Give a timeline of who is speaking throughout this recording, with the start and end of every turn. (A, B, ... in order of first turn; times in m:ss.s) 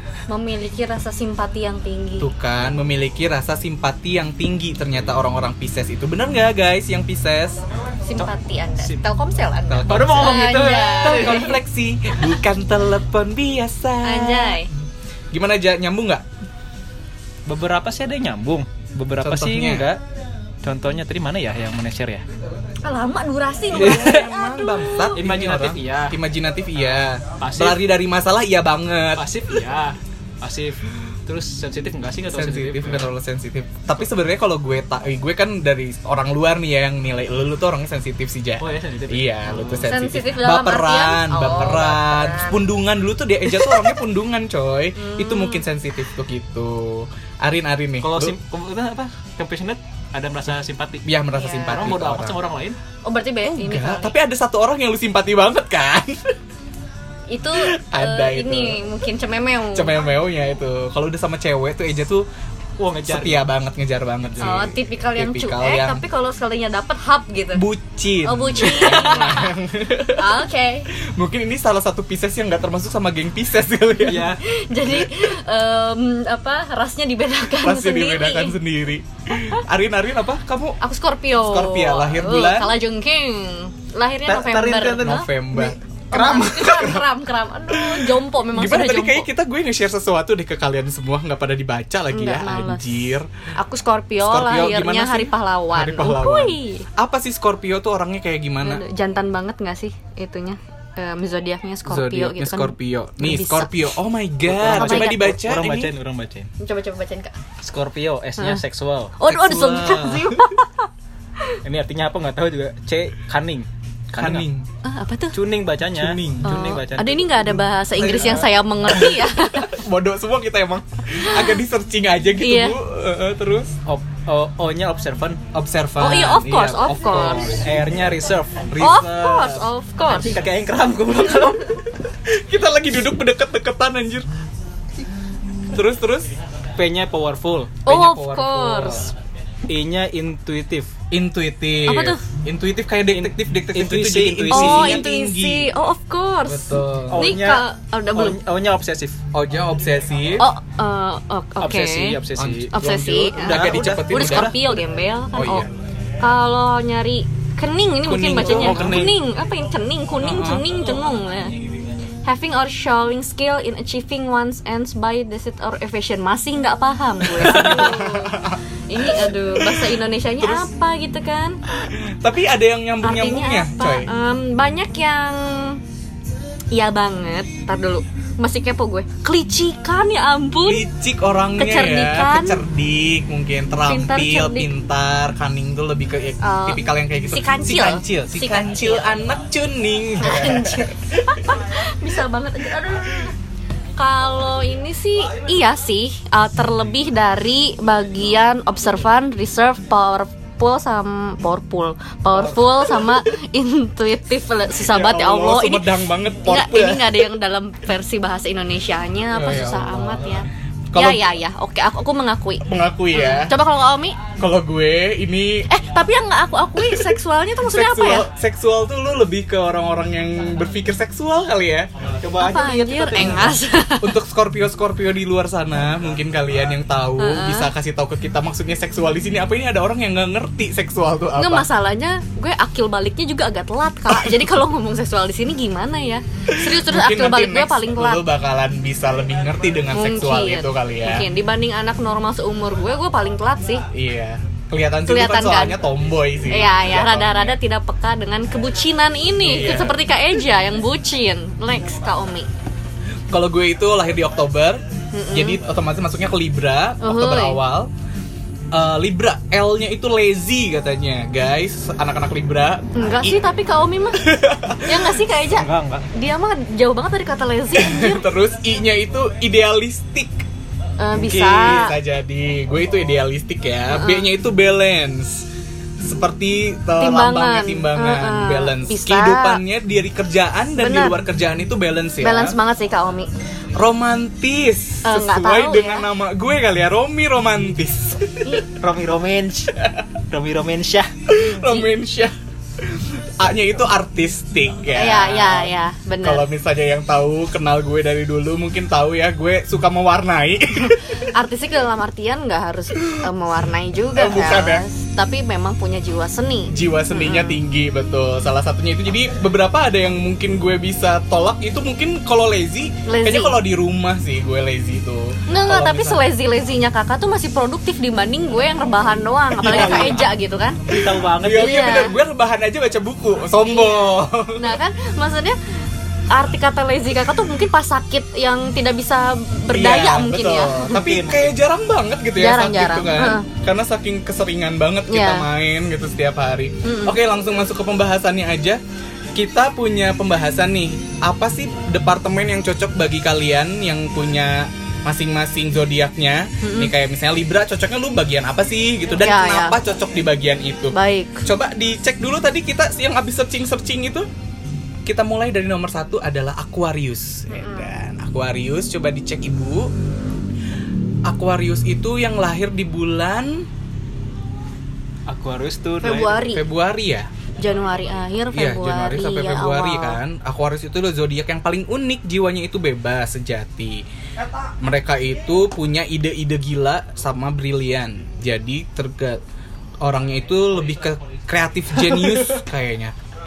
0:00.3-0:02.3 A
0:02.2-0:07.6 B
0:08.0-0:11.6 A
0:08.8-0:09.1 C
0:09.7-0:14.7 B
0:09.8-0:11.5 C
0:14.0-0:14.7 A
0:15.3-0:16.2 B
0:17.5-0:20.0 C
0:19.2-0:19.9 B
0:20.6-0:22.2 C
0:22.8-0:25.0 A
0:23.7-0:29.3 B
0:23.7-0:24.3 C
0:25.1-0:26.2 C
0:27.3-0:27.8 C
0:29.2-0:33.1 C
0:32.3-0:48.4 B
0:38.6-0:39.9 C
0:39.9-0:42.7 A
0:45.0-0:45.7 A
0:48.0-0:51.1 C
0:51.0-0:52.4 B
0:51.4-0:51.9 A
0:51.6-0:52.8 C
0:53.0-0:54.1 A
0:53.4-0:56.4 B
0:57.3-1:00.0 A
0:57.6-0:58.8 B
0:59.7-1:02.3 B
1:02.8-1:03.4 C
1:03.1-1:06.0 B
1:04.2-1:04.7 C
1:04.4-1:07.6 A
1:07.6-1:10.4 B
1:08.2-1:09.5 A
1:10.2-1:10.9 A
1:11.2-1:14.3 B
1:14.0-1:14.4 C
1:14.4-1:18.6 A
1:17.6-1:20.8 B
1:20.8-1:29.3 A
1:21.3-1:22.7 B
1:24.3-1:26.9 C
1:25.0-1:27.1 B
1:27.7-1:33.3 B
1:32.1-1:32.9 A
1:33.6-1:36.9 A
1:34.2-1:38.8 B
1:38.6-1:43.7 A
1:41.9-1:45.9 B
1:44.5-1:46.5 C
1:44.6-1:45.2 A
1:46.6-1:47.4 A
1:47.6-1:49.2 C
1:48.4-1:48.6 A
1:49.2-1:50.9 A
1:49.2-1:50.5 B
1:51.6-1:54.5 C
1:54.2-1:54.7 B
1:54.8-1:55.4 A
1:55.3-1:57.6 C
1:56.0-1:56.5 B
1:56.4-1:59.7 A
1:58.0-2:03.8 B
1:58.1-1:58.4 C
2:01.2-2:01.6 A
2:02.4-2:02.8 A
2:03.9-2:05.4 C
2:05.5-2:07.4 B
2:06.0-2:07.5 A
2:07.1-2:12.0 C
2:08.7-2:09.6 B
2:08.8-2:10.4 A
2:12.3-2:14.3 B
2:15.7-2:16.3 B
2:16.8-2:17.8 C
2:17.9-2:19.1 B
2:17.9-2:19.1 A
2:19.7-2:20.9 C
2:21.1-2:25.7 B
2:21.9-2:22.2 A
2:23.1-2:25.0 C
2:24.5-2:28.4 A
2:26.4-2:27.3 B
2:27.1-2:29.2 C
2:29.3-2:30.5 B
2:30.4-2:32.2 A
2:31.6-2:32.8 C
2:32.4-2:34.6 B
2:32.7-2:35.7 A
2:33.4-2:34.8 C
2:35.3-2:35.7 B
2:36.2-2:41.6 A
2:38.0-2:39.2 B
2:38.4-2:39.2 C
2:40.2-2:40.7 B
2:42.2-2:51.6 A
2:47.4-2:50.7 B
2:51.8-2:54.1 B
2:53.0-2:55.8 A
2:56.7-3:00.8 A
3:00.6-3:11.0 B
3:01.6-3:02.6 A
3:03.8-3:04.7 A
3:06.4-3:09.1 A
3:10.2-3:13.3 A
3:14.0-3:25.9 A
3:22.4-3:23.2 B
3:24.8-3:27.3 B
3:26.4-3:34.2 A
3:29.3-3:30.3 B
3:30.9-3:31.3 B
3:32.6-3:33.6 B
3:34.4-3:35.7 B
3:35.7-3:38.3 A
3:36.8-3:41.9 B
3:42.2-3:43.6 C
3:42.4-3:44.2 A
3:44.0-3:51.7 B
3:47.2-3:47.7 A
3:51.4-3:58.2 A
3:56.5-4:01.3 B
3:59.9-4:03.8 A
4:03.9-4:07.6 B
4:05.1-4:05.8 A
4:06.5-4:12.5 A
4:09.4-4:10.0 B
4:13.3-4:17.9 B
4:15.1-4:15.6 A
4:17.0-4:17.6 A
4:18.7-4:23.4 B
4:23.0-4:24.3 A
4:24.2-4:25.2 B
4:24.8-4:28.2 A
4:25.5-4:26.1 C
4:27.7-4:30.4 B
4:31.0-4:32.0 A
4:31.2-4:31.7 C
4:31.3-4:35.5 B
4:33.9-4:34.3 A
4:36.0-4:42.6 B
4:37.0-4:39.6 A
4:40.8-4:41.2 A
4:42.2-4:43.3 A
4:43.8-4:48.6 B
4:45.0-4:46.1 A
4:48.7-4:49.8 C
4:49.8-4:50.0 B
4:50.3-4:51.1 C
4:51.3-5:01.3 B
4:51.4-4:51.9 A
4:54.9-4:56.4 A
5:01.1-5:07.6 A
5:03.0-5:03.3 B
5:04.1-5:04.8 B
5:06.7-5:16.2 B
5:13.1-5:13.6 A
5:15.5-5:20.8 A
5:19.6-5:20.3 B
5:19.6-5:20.2 C
5:20.9-5:22.0 C
5:20.9-5:24.8 B
5:21.5-5:22.1 A
5:24.5-5:25.6 A
5:26.3-5:31.0 A
5:29.7-5:38.8 B
5:30.9-5:31.6 C
5:32.4-5:33.5 A
5:35.1-5:35.5 A
5:36.8-5:37.2 A
5:39.4-5:54.3 B
5:46.6-5:46.9 A
5:49.2-5:49.8 A
5:50.9-5:51.4 A
5:55.1-5:59.9 B
5:57.5-5:57.9 A
6:01.3-6:03.7 B
6:05.3-6:06.5 C
6:06.0-6:06.6 A
6:06.5-6:07.3 B
6:07.6-6:10.2 A
6:08.5-6:19.4 B
6:20.0-6:23.2 B
6:22.1-6:22.5 C